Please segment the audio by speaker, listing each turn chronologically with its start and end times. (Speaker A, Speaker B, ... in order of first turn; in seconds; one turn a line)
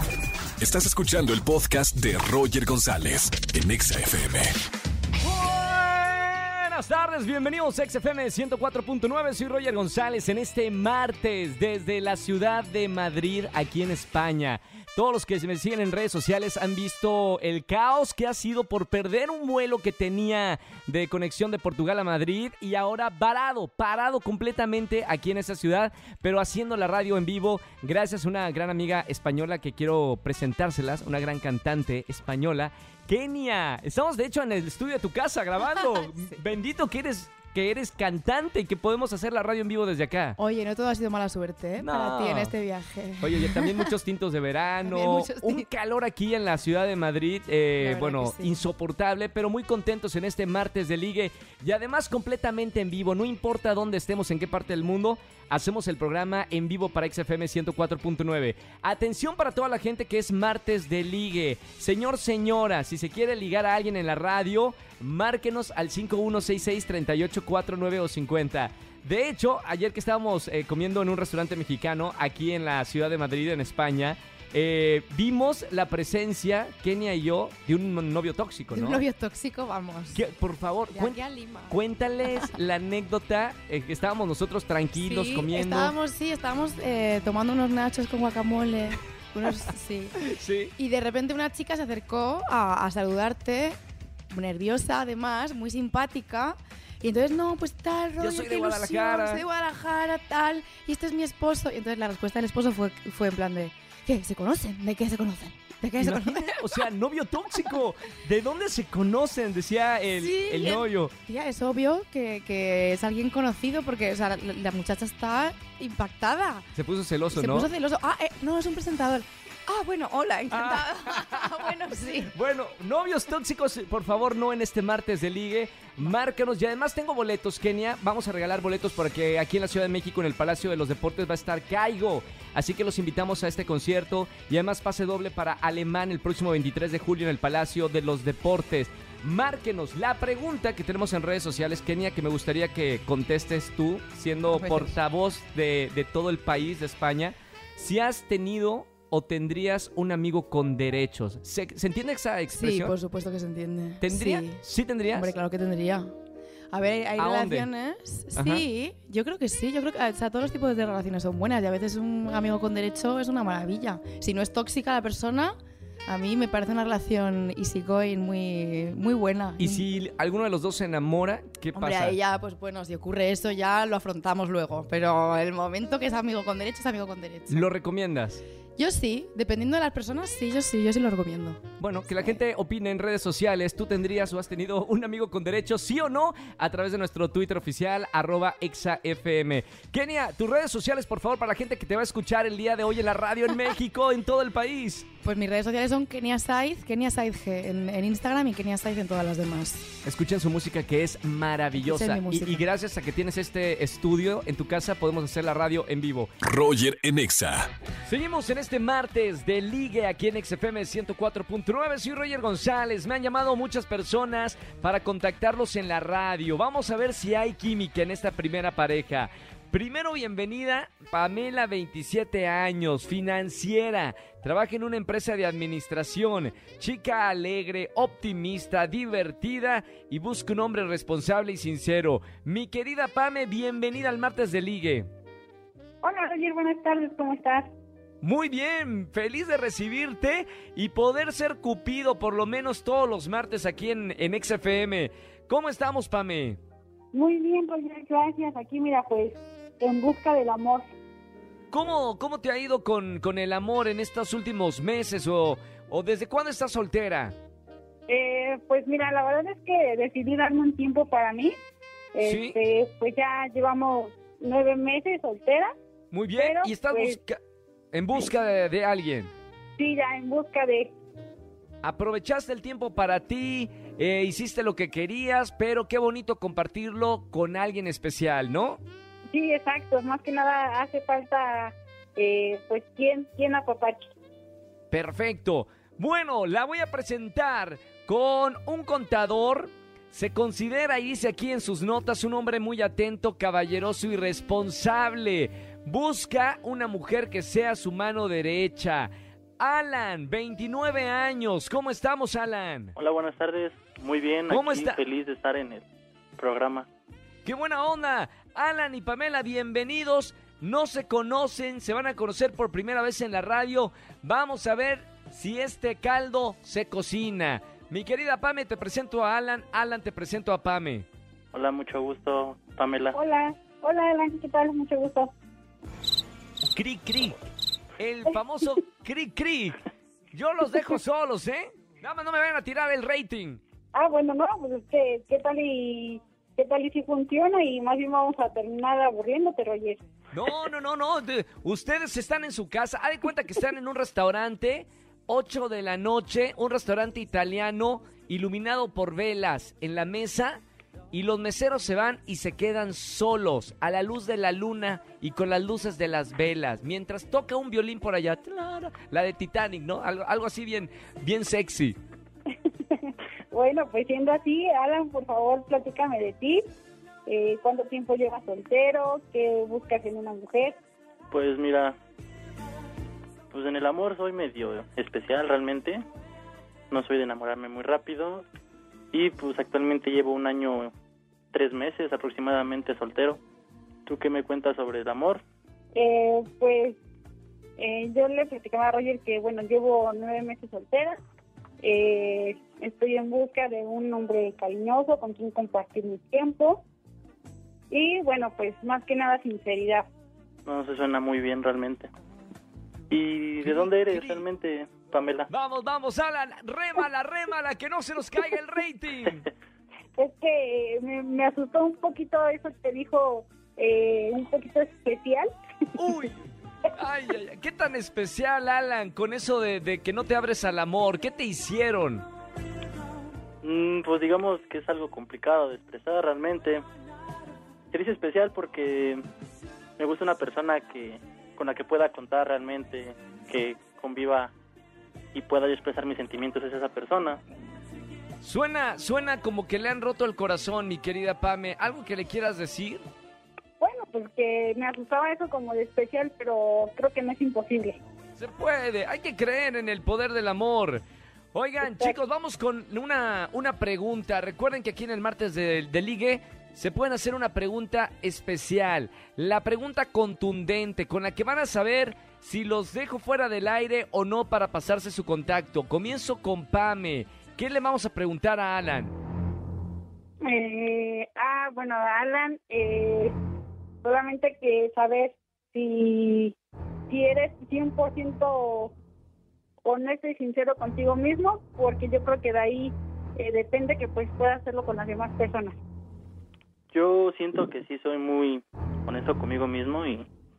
Speaker A: 0.6-4.5
Speaker B: 5.2-40.4
Speaker C: 35.9-36.4
Speaker C: 40.4-43.9
Speaker B: 41.8-42.5
Speaker B: 43.2-79.0
Speaker C: 44.9-45.7
Speaker C: 47.8-48.6
Speaker C: 78.7-80.2
Speaker B: 80.2-85.9
Speaker C: 80.9-81.8
Speaker C: 85.0-90.2
Speaker B: 90.2-90.7
Speaker C: 90.8-93.8
Speaker C: 94.3-106.8
Speaker B: 98.2-99.4
Speaker B: 106.0-111.1
Speaker C: 110.2-116.7
Speaker B: 116.8-117.7
Speaker C: 117.3-122.3
Speaker B: 120.5-152.9
Speaker C: 144.5-144.9
Speaker C: 152.5-154.6
Speaker B: 154.0-155.3
Speaker C: 155.1-156.1
Speaker C: 156.7-169.9
Speaker B: 157.2-157.7
Speaker B: 158.3-158.7
Speaker B: 169.6-172.2
Speaker C: 171.7-177.7
Speaker B: 177.5-178.4
Speaker C: 178.8-181.6
Speaker B: 181.8-195.1
Speaker C: 195.2-199.9
Speaker B: 200.0-206.3
Speaker C: 201.8-202.7
Speaker A: 206.4-207.7
Speaker B: 208.1-235.1
Speaker D: 236.0-237.7
Speaker B: 238.2-246.6
Speaker D: 247.1-250.9
Speaker B: 251.7-257.3
Speaker D: 258.1-261.6
Speaker D: 262.1-265.7
Speaker B: 262.2-262.6
Speaker B: 266.1-267.4
Speaker D: 266.4-267.2
Speaker B: 267.9-269.3
Speaker D: 269.8-270.9
Speaker B: 271.8-278.8
Speaker D: 279.3-284.1
Speaker B: 284.9-303.0
Speaker E: 303.0-305.8
Speaker B: 304.5-305.0
Speaker E: 306.4-306.9
Speaker B: 307.4-321.1
Speaker E: 321.5-323.2
Speaker D: 323.1-325.3
Speaker B: 326.7-327.4
Speaker B: 328.0-329.8
Speaker B: 330.3-333.6
Speaker D: 333.9-340.0
Speaker B: 340.3-350.6
Speaker B: 351.1-362.0
Speaker D: 363.0-366.6
Speaker D: 367.3-370.8
Speaker E: 371.3-372.0
Speaker E: 373.5-376.0
Speaker E: 376.9-378.4
Speaker E: 379.1-380.9
Speaker E: 381.5-383.4
Speaker E: 384.1-385.4
Speaker D: 385.9-387.0
Speaker D: 387.8-391.2
Speaker D: 391.8-396.8
Speaker D: 397.9-400.1
Speaker E: 400.7-402.1
Speaker E: 403.1-405.5
Speaker B: 403.6-404.4
Speaker B: 405.5-409.5
Speaker D: 410.2-415.5
Speaker B: 416.0-416.4
Speaker B: 416.9-422.3
Speaker E: 423.6-426.8
Speaker E: 427.9-429.2
Speaker E: 430.0-434.5
Speaker E: 435.3-437.4
Speaker B: 438.4-443.0
Speaker D: 443.8-448.0
Speaker B: 448.4-451.0
Speaker B: 451.5-469.1
Speaker D: 451.8-452.1
Speaker D: 470.4-473.4
Speaker D: 474.0-476.6
Speaker D: 477.1-478.9
Speaker D: 479.9-485.8
Speaker E: 486.9-490.3